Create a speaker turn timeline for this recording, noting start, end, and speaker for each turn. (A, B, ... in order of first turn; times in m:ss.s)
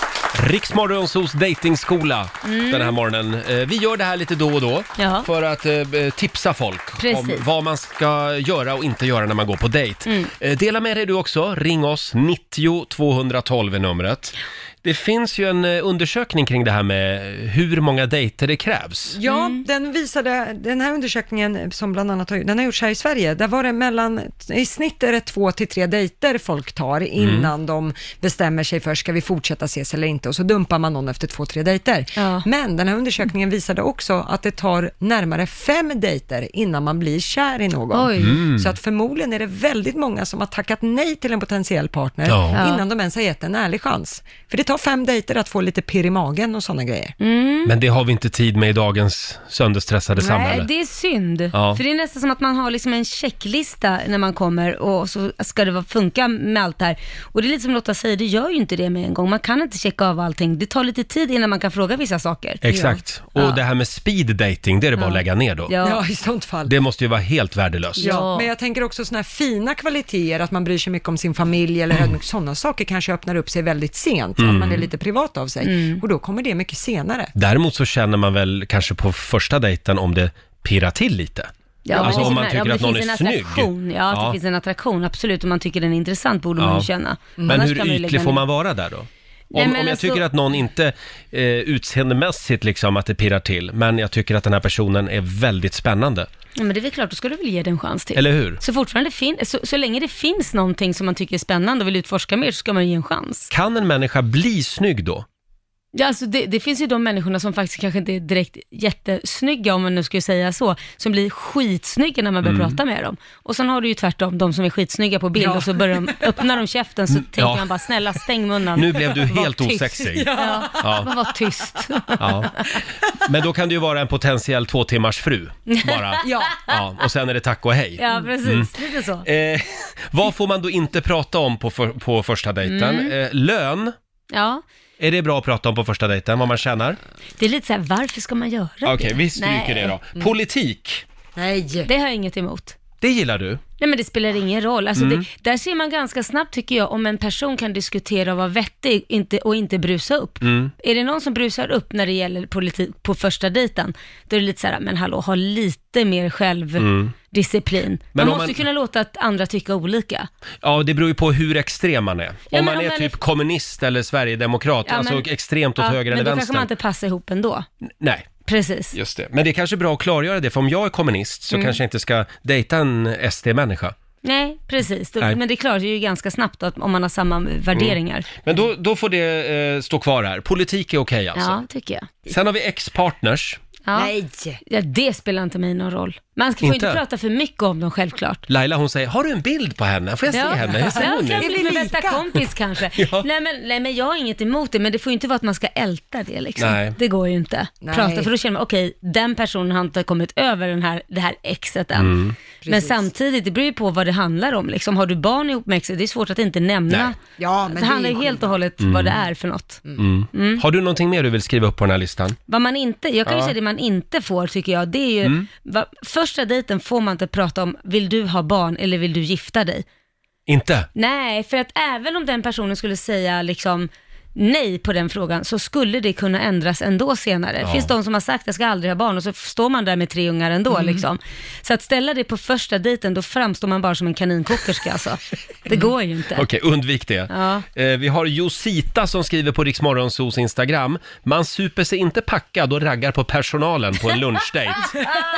0:00.3-0:19.2 A
0:02.4-0:02.9 B
0:05.0-0:05.3 B
0:07.0-0:07.4 B
0:19.1-0:47.2 C
0:19.2-0:19.6 B
0:27.2-0:27.5 A
0:32.2-0:32.5 B
0:37.9-0:38.4 B
0:38.2-0:38.7 A
0:42.2-0:42.6 A
0:42.5-0:42.8 B
0:47.2-0:47.7 B
0:47.6-0:50.7 A
0:50.2-0:50.6 C
0:50.3-1:02.6 B
0:51.5-0:51.8 A
1:02.6-1:05.7 A
1:02.7-1:03.0 C
1:05.0-1:06.0 B
1:05.8-1:06.7 C
1:06.6-1:08.1 A
1:08.0-1:08.5 B
1:08.0-1:17.3 C
1:14.4-1:14.9 A
1:15.6-1:16.0 B
1:17.3-1:24.4 A
1:21.8-1:28.4 B
1:21.9-1:22.4 C
1:26.6-1:26.9 A
1:27.4-1:36.3 A
1:29.5-1:30.2 B
1:36.6-1:43.5 B
1:38.1-1:38.6 A
1:43.5-1:45.2 A
1:45.9-2:02.2 B
1:52.4-1:52.8 A
1:55.4-1:56.3 C
1:57.1-1:57.6 A
1:58.7-2:01.1 A
2:00.0-2:01.0 C
2:02.1-2:02.5 C
2:02.2-2:02.5 A
2:03.1-2:08.7 A
2:05.7-2:06.5 B
2:06.2-2:06.6 C
2:08.0-2:09.2 B
2:09.2-2:13.9 A
2:12.7-2:13.1 B
2:14.3-2:14.6 B
2:15.0-2:17.0 A
2:17.4-2:19.9 B
2:18.8-2:21.0 A
2:21.4-2:21.9 C
2:21.8-2:22.8 B
2:23.0-2:23.6 A
2:23.8-2:40.3 B
2:25.0-2:25.2 A
2:30.4-2:30.7 A
2:36.8-2:37.1 A
2:38.1-2:38.6 A
2:40.6-2:46.7 A
2:42.5-2:43.2 B
2:44.8-2:47.7 B
2:48.0-2:48.3 A
2:48.4-2:48.9 B
2:48.9-2:54.0 A
2:54.2-2:58.3 B
2:57.7-3:01.6 A
3:01.4-3:02.1 B
3:02.3-3:03.6 A
3:03.8-3:04.1 B
3:04.0-3:04.6 C
3:04.6-3:08.4 B
3:06.6-3:07.0 A
3:08.5-3:11.5 A
3:10.3-3:12.2 C
3:10.3-3:30.6 B
3:12.9-3:13.2 A
3:16.6-3:17.0 A
3:17.8-3:18.3 C
3:22.0-3:22.4 A
3:22.6-3:23.0 C
3:26.9-3:27.1 A
3:27.4-3:28.6 C
3:28.8-3:29.2 A
3:30.0-3:32.4 A
3:32.5-3:39.8 B
3:33.2-3:33.5 A
3:40.5-3:40.9 A
3:40.9-3:56.4 B
3:47.6-3:47.9 A
3:50.7-3:51.0 C
3:56.3-4:05.0 A
3:57.3-3:57.6 B